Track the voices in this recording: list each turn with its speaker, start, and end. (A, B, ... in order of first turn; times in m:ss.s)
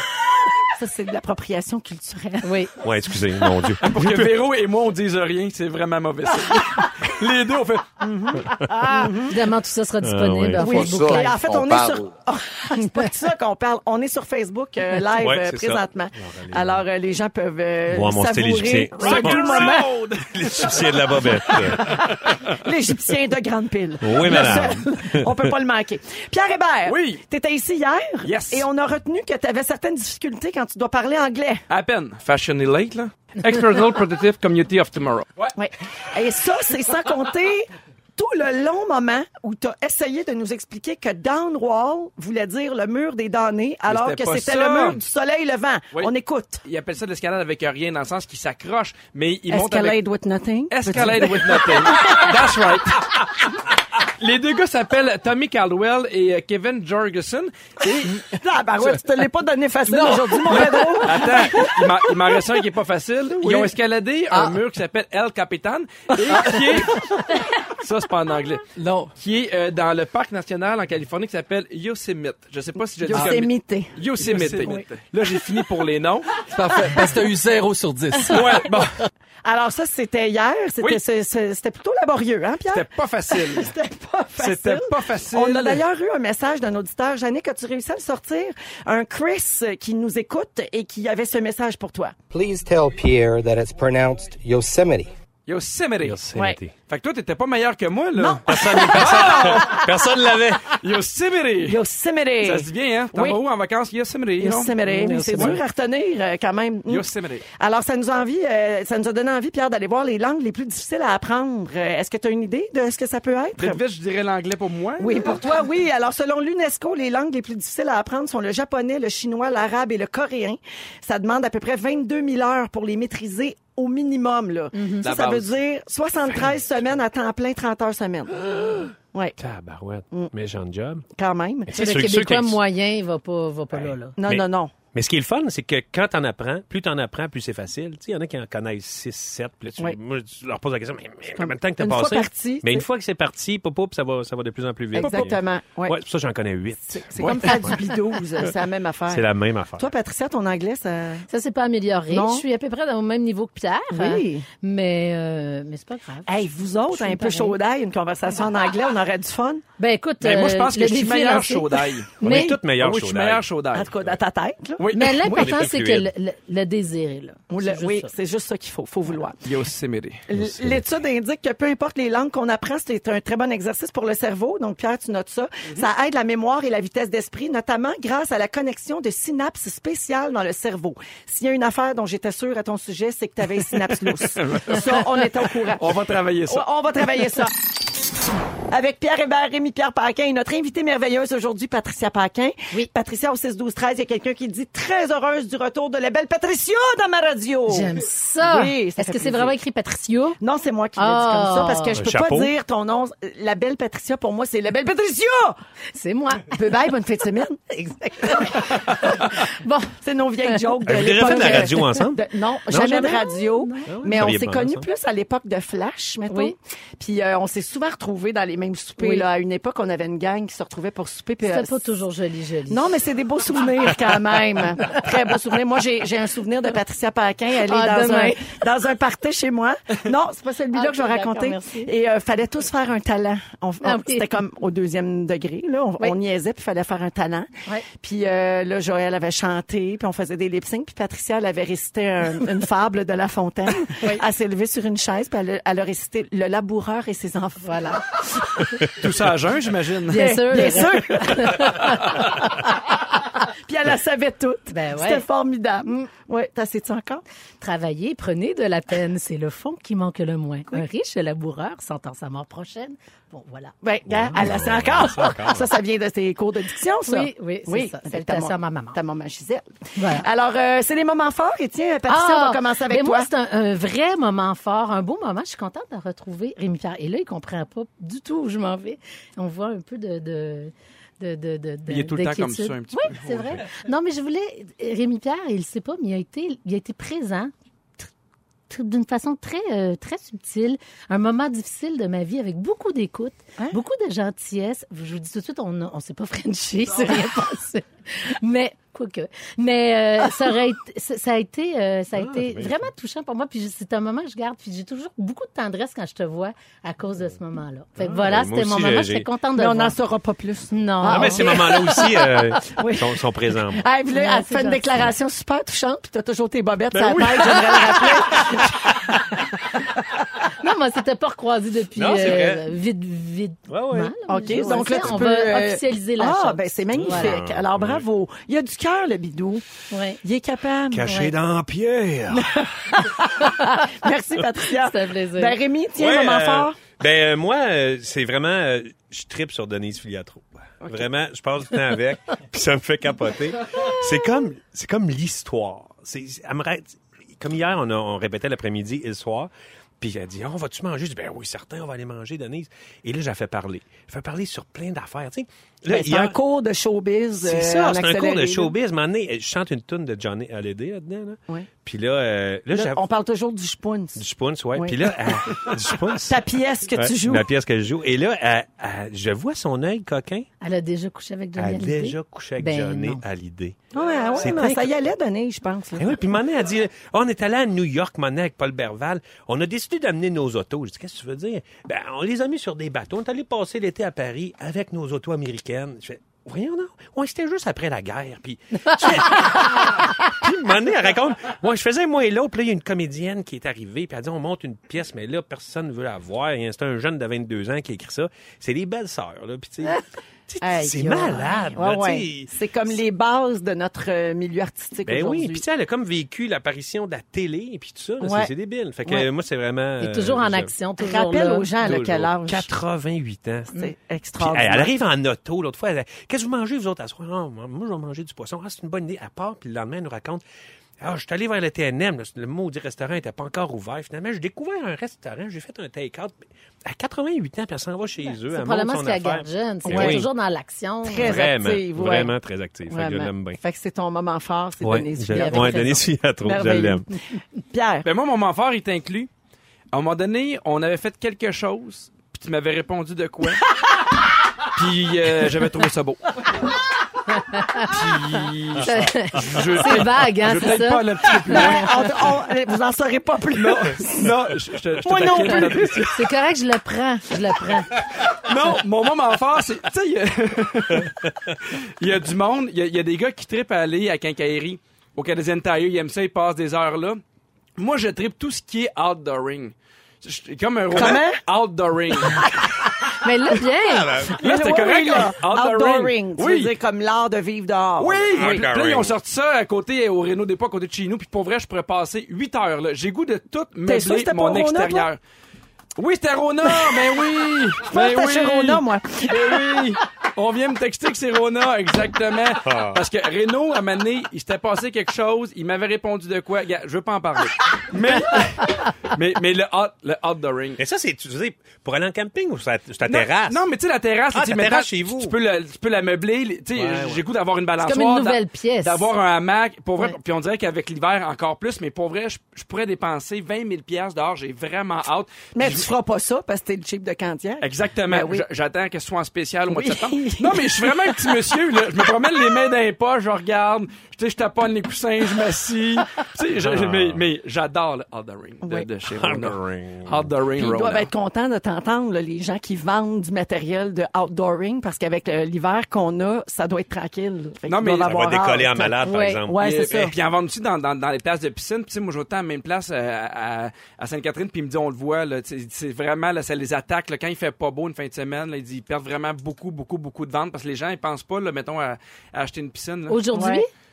0:00.7-0:02.6 A
0:02.4-0:02.7 B
0:02.8-0:04.3 C
0:03.8-0:08.0 D
0:08.0-0:09.4 A
0:08.8-0:11.4 B
0:10.0-0:11.0 C
0:10.6-0:20.0 A
0:15.1-0:16.8 C
0:17.9-0:22.1 C
0:19.0-0:22.3 D
0:21.3-0:31.6 A
0:24.0-0:25.5 C
0:26.9-0:27.2 D
0:28.2-0:28.7 D
0:31.7-0:35.5 D
0:35.6-0:46.6 A
0:43.9-0:45.0 D
0:46.7-0:50.0 D
0:49.5-0:52.2 A
0:50.7-0:53.4 D
0:54.2-0:58.2 D
0:58.0-1:02.3 A
0:59.9-1:01.3 E
1:00.5-1:08.6 D
1:04.3-1:04.6 E
1:06.3-1:07.0 E
1:08.8-1:09.2 E
1:09.2-1:16.4 D
1:13.0-1:14.9 A
1:13.1-1:13.4 E
1:14.3-1:14.8 E
1:16.5-1:18.7 E
1:18.3-1:19.0 D
1:19.4-1:32.2 A
1:22.7-1:23.7 D
1:24.4-1:25.8 D
1:32.3-1:35.1 F
1:35.5-1:36.2 D
1:36.0-1:36.7 C
1:36.9-1:39.9 D
1:38.2-1:39.8 A
1:38.5-1:40.8 C
1:40.8-1:41.8 D
1:41.6-1:43.4 A
1:42.4-1:45.6 D
1:44.4-1:53.8 A
1:44.9-1:45.6 C
1:46.9-1:47.4 D
1:53.6-1:55.4 D
1:55.0-2:08.4 A
2:04.7-2:05.0 B
2:05.0-2:05.5 D
2:08.4-2:11.0 C
2:09.0-2:09.4 A
2:11.2-2:11.8 A
2:11.7-2:12.6 C
2:11.7-2:14.2 B
2:13.7-2:27.8 C
2:14.2-2:14.7 A
2:21.4-2:22.9 A
2:24.9-2:26.0 A
2:25.0-2:25.3 D
2:26.9-2:29.2 A
2:27.2-2:27.6 D
2:29.1-2:29.9 C
2:29.8-2:31.3 A
2:31.3-2:36.3 B
2:32.1-2:32.4 A
2:33.9-2:34.5 A
2:36.3-2:39.6 A
2:36.9-2:37.6 B
2:39.8-2:42.6 B
2:40.2-2:43.9 D
2:42.2-2:43.5 C
2:43.7-2:45.5 A
2:44.8-2:45.2 D
2:44.9-2:48.1 B
2:45.3-2:46.1 C
2:47.5-2:49.4 A
2:49.4-2:50.2 D
2:50.3-3:05.9 A
2:50.3-2:50.9 C
3:04.4-3:06.6 D
3:06.5-3:07.5 A
3:08.7-3:19.5 A
3:17.7-3:20.4 B
3:20.4-3:25.6 A
3:21.0-3:22.0 B
3:21.9-3:22.5 C
3:25.9-3:26.6 B
3:26.5-3:27.7 A
3:27.7-3:30.6 B
3:28.2-3:28.7 A
3:30.0-3:41.9 A
3:30.8-3:33.2 C
3:31.2-3:31.9 B
3:33.0-3:34.1 B
3:33.9-3:34.9 C
3:36.3-3:36.6 B
3:39.0-3:39.3 B
3:41.4-3:42.9 B
3:42.7-4:08.9 A
3:47.6-3:48.4 B
3:50.7-3:51.9 B
3:53.8-3:54.3 B
4:07.6-4:08.0 B
4:09.0-4:10.7 D
4:10.1-4:12.8 B
4:10.1-4:17.2 A
4:14.7-4:15.2 B
4:17.6-4:23.7 B
4:23.8-4:33.3 A
4:24.1-4:25.7 C
4:27.0-4:29.0 B
4:30.0-4:30.2 B
4:32.1-4:48.1 B
4:41.9-4:43.6 D
4:48.7-5:10.0 B
5:02.2-5:02.9 C
5:08.0-5:09.3 C
5:09.6-5:12.0 A
5:10.7-5:12.6 B
5:11.1-5:13.8 C
5:12.7-5:19.2 A
5:14.1-5:14.8 B
5:16.9-5:18.7 D
5:20.4-5:27.4 B
5:22.0-5:22.7 C
5:23.7-5:25.2 C
5:24.3-5:29.6 A
5:26.9-5:28.0 C
5:29.9-5:30.2 B
5:30.2-5:31.3 A
5:30.9-5:32.7 C
5:32.3-5:36.8 A
5:34.7-5:35.6 B
5:36.0-5:56.4 C
5:55.9-5:58.7 A
5:57.4-6:03.0 C
6:02.7-6:04.2 A
6:04.2-6:06.4 C
6:04.8-6:07.4 A
6:07.0-6:10.5 C
6:10.6-6:13.2 B
6:11.6-6:13.8 C
6:13.9-6:16.2 A
6:14.4-6:14.9 C
6:16.0-6:43.0 C
6:40.6-6:45.6 A
6:45.1-6:50.7 C
6:48.2-6:48.5 A
6:50.0-6:51.7 B
6:51.0-6:52.7 A
6:51.8-6:53.8 C
6:53.7-6:54.9 A
6:54.4-7:00.4 C
7:01.0-7:10.3 C
7:08.5-7:11.4 B
7:09.9-7:10.2 A
7:11.0-7:12.3 A
7:11.2-7:13.6 C
7:12.9-7:18.1 A
7:14.8-7:17.1 C
7:15.3-7:16.0 B
7:18.0-7:19.3 D
7:19.9-7:23.6 D
7:24.6-7:26.4 D
7:27.3-7:28.0 B
7:27.8-7:32.3 D
7:28.8-7:31.9 B
7:31.5-7:34.3 A
7:33.5-7:36.3 D
7:35.0-7:36.1 A
7:35.3-7:37.9 B
7:38.2-7:47.2 D
7:47.8-7:52.5 D
7:50.9-7:51.4 A
7:53.2-7:54.2 B
7:53.8-7:54.4 C
7:54.3-7:56.8 D
7:54.3-7:58.7 A
7:58.0-8:05.2 D
7:58.3-7:59.2 C
8:03.9-8:05.1 A
8:06.0-8:20.8 D
8:06.6-8:07.2 A
8:07.9-8:10.0 A
8:12.6-8:13.0 C
8:20.8-8:23.7 C
8:23.1-8:35.9 D
8:24.3-8:25.4 C
8:26.7-8:27.2 C
8:27.8-8:29.1 B
8:35.6-8:38.4 A
8:37.6-8:51.1 D
8:39.7-8:41.6 A
8:46.6-8:47.3 C
8:48.6-8:48.9 A
8:49.0-8:50.3 C
8:50.6-9:00.1 A
8:57.7-8:58.3 D
8:58.0-8:59.8 C
8:59.0-8:59.4 B
8:59.6-9:13.2 D
9:13.1-9:13.7 B
9:13.3-9:13.6 A